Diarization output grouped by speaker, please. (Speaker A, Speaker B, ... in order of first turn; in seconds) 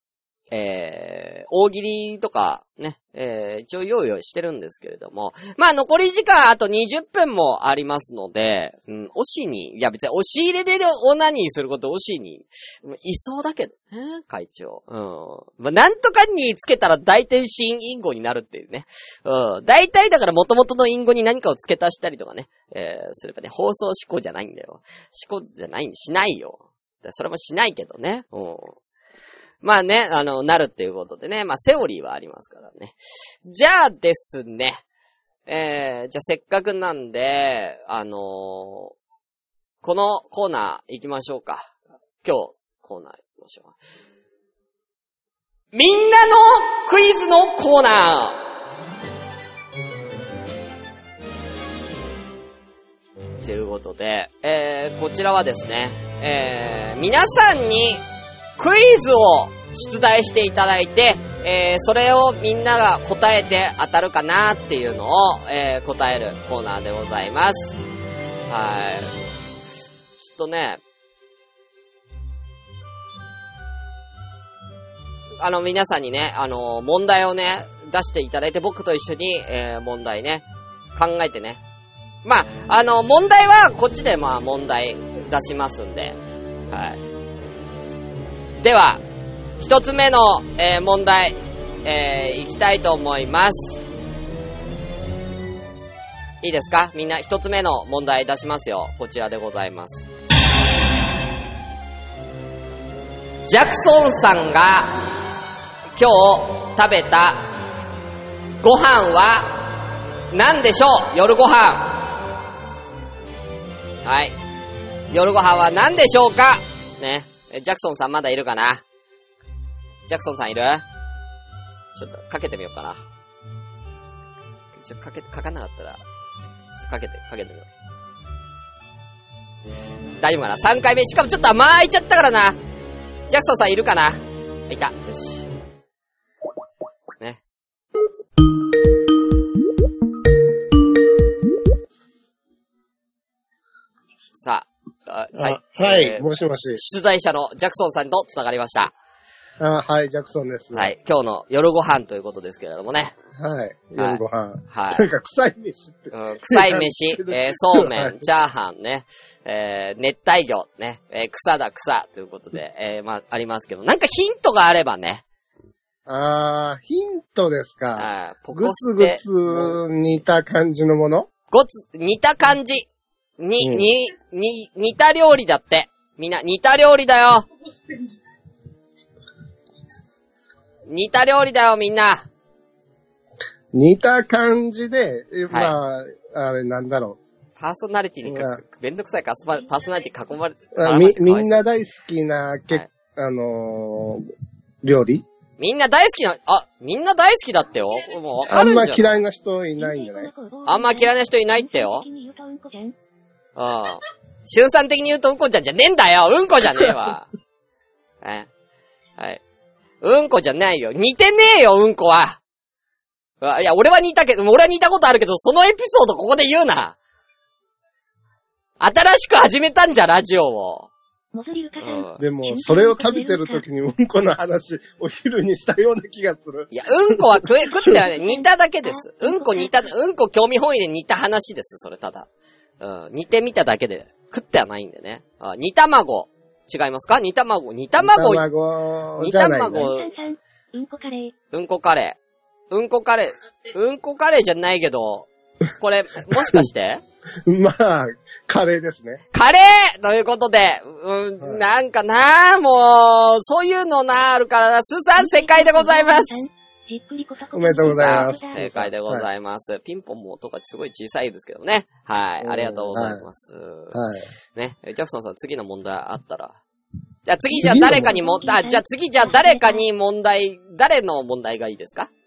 Speaker A: 0.5-28.8, 29.6-34.8, 35.5-38.9, 39.8-43.8, 45.7-48.5, 53.4-58.0, 58.6-67.8, 68.5-69.2, 70.2-70.8, 75.4-80.4, 81.0-81.6, 82.2-86.2, 86.7-87.0, 88.6-89.0, 89.6-93.9, 96.4-100.1, 103.5-105.1, 106.0-107.5, 108.6-109.8, 110.3-112.1, 114.0-114.3, 115.1-118.8, 120.1-120.8, 122.0-123.0, 124.7-126.0, 126.7-127.7, 130.2-132.6, 133.3-135.5, 144.4-148.9, 150.7-153.1, 154.0-155.1, 156.1-165.2, 168.0-169.8, 171.5-172.9, 173.4-177.5, 180.9-182.3, 187.6-191.6, 195.6-199.2, 200.7-202.1, 203.6-207.3, 208.2-208.5, 210.0-212.4, 213.4-217.0, 218.8-220.9, 221.8-222.2, 226.7-232.3, 232.8-238.4, 239.2-240.1, 241.5-242.2, 242.7-247.0, 249.3-256.4, 257.8-264.0, 264.6-266.6, 267.3-272.1
Speaker B: 145.3-146.8, 149.6-150.9, 153.4-158.3, 166.1-171.3, 173.6-173.9, 183.7-187.2, 188.3-188.6, 190.8-194.3, 194.8-195.2, 198.5-200.3, 222.2-227.4, 238.0-239.9, 246.3-246.7, 247.5-249.2, 257.5-259.3, 262.4-263.2, 263.9-264.2, 267.5-268.1
Speaker C: 198.6-199.0, 199.8-202.9, 221.3-223.6, 228.0-229.8, 239.8-241.3, 255.2-258.6, 267.6-269.9